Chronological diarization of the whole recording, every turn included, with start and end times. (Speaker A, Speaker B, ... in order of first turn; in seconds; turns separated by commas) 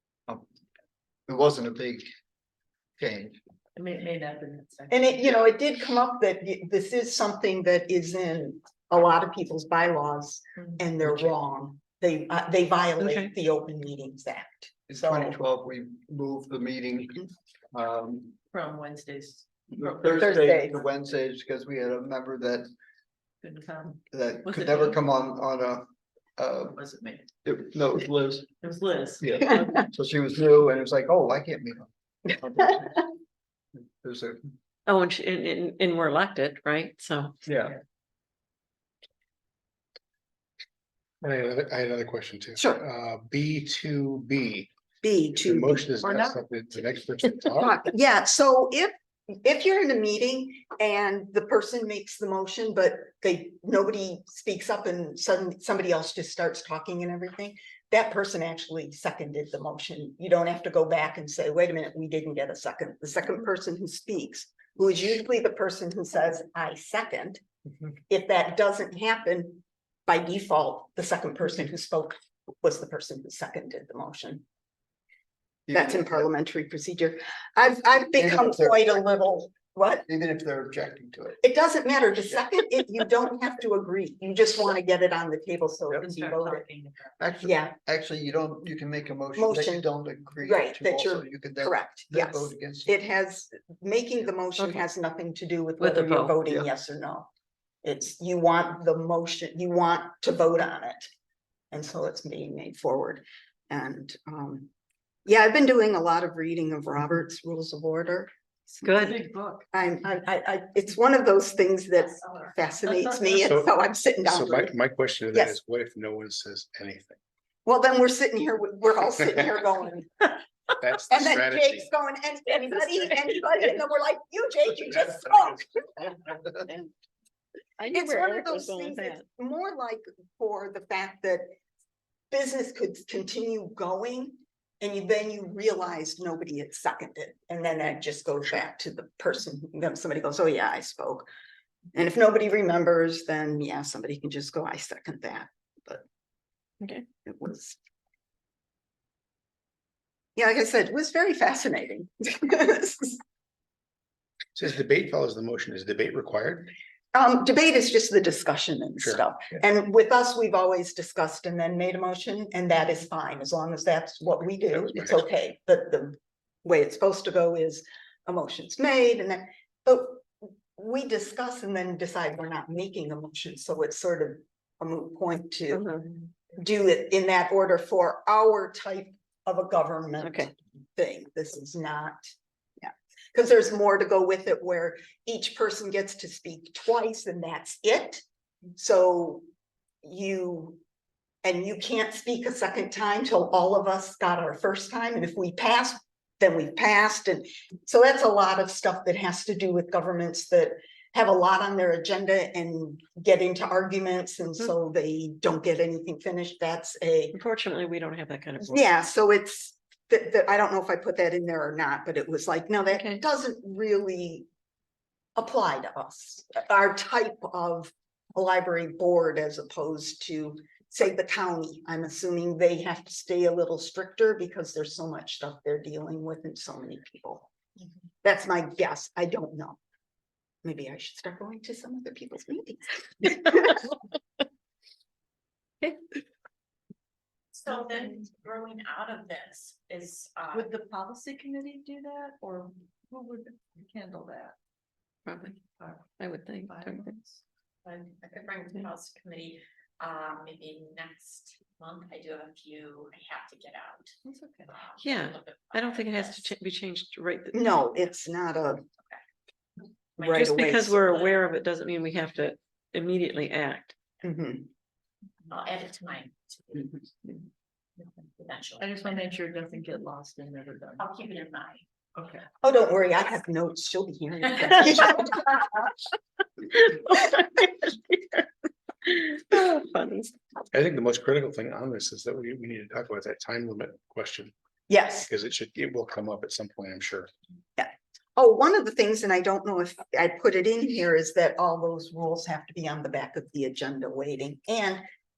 Speaker A: 1.3-2.1, Speaker A: 3.0-3.4, Speaker B: 3.8-5.2, Speaker C: 4.9-15.4, Speaker D: 13.0-13.3, Speaker A: 14.9-18.4, Speaker B: 18.5-20.8, Speaker A: 19.7-22.7, Speaker C: 20.2-20.8, Speaker B: 23.4-25.0, Speaker A: 24.1-26.8, Speaker B: 26.7-27.3, Speaker A: 27.4-28.5, Speaker B: 28.6-29.9, Speaker A: 29.2-33.1, Speaker A: 34.0-34.4, Speaker D: 34.9-37.4, Speaker A: 37.5-37.8, Speaker E: 41.2-44.7, Speaker C: 42.6-42.8, Speaker C: 45.0-45.9, Speaker E: 45.3-47.8, Speaker B: 46.0-46.4, Speaker C: 47.6-67.4, Speaker C: 68.1-74.4, Speaker A: 75.7-76.3, Speaker C: 75.7-80.1, Speaker A: 78.2-79.0, Speaker A: 80.1-81.4, Speaker C: 81.4-86.7, Speaker B: 85.9-87.2, Speaker A: 87.2-92.9, Speaker C: 87.4-87.7, Speaker C: 89.4-89.9, Speaker C: 90.4-97.3, Speaker D: 94.6-94.8, Speaker D: 95.8-96.4, Speaker C: 97.8-101.1, Speaker C: 101.7-104.7, Speaker C: 105.3-108.3, Speaker D: 108.8-109.2, Speaker C: 108.9-109.1, Speaker B: 108.9-109.6, Speaker C: 109.7-114.7, Speaker F: 112.1-112.9, Speaker B: 113.0-113.4, Speaker E: 113.4-117.2, Speaker C: 117.7-120.4, Speaker E: 120.8-121.9, Speaker C: 121.1-126.9, Speaker D: 127.8-129.2, Speaker C: 127.9-131.5, Speaker C: 132.3-141.3, Speaker C: 141.9-146.0, Speaker C: 147.3-147.8, Speaker C: 150.4-153.2, Speaker E: 154.6-156.7, Speaker C: 157.1-175.8, Speaker E: 164.7-165.2, Speaker D: 175.7-176.1, Speaker C: 176.6-188.2, Speaker D: 180.2-180.5, Speaker C: 188.8-189.4, Speaker C: 190.0-190.8, Speaker C: 191.4-207.3, Speaker D: 207.3-208.8, Speaker C: 208.7-214.5, Speaker D: 212.9-213.2, Speaker C: 215.4-227.5, Speaker C: 228.2-229.8, Speaker C: 230.6-233.8, Speaker F: 237.5-240.7, Speaker B: 237.7-238.2, Speaker B: 240.5-244.6, Speaker D: 245.3-245.6, Speaker B: 245.8-247.4, Speaker D: 246.2-247.1, Speaker F: 247.8-254.1, Speaker B: 254.2-254.8, Speaker F: 254.7-256.5, Speaker D: 255.0-257.6, Speaker C: 257.5-258.9, Speaker C: 260.2-261.0, Speaker D: 260.3-263.9, Speaker C: 264.2-264.7, Speaker F: 265.5-267.0, Speaker F: 268.0-268.9, Speaker B: 268.8-271.1, Speaker F: 271.0-271.8, Speaker B: 272.2-272.4, Speaker C: 272.6-275.8, Speaker D: 276.8-278.4, Speaker D: 279.1-280.3, Speaker E: 280.7-284.5, Speaker C: 284.9-285.3, Speaker E: 285.3-287.3, Speaker C: 287.8-295.0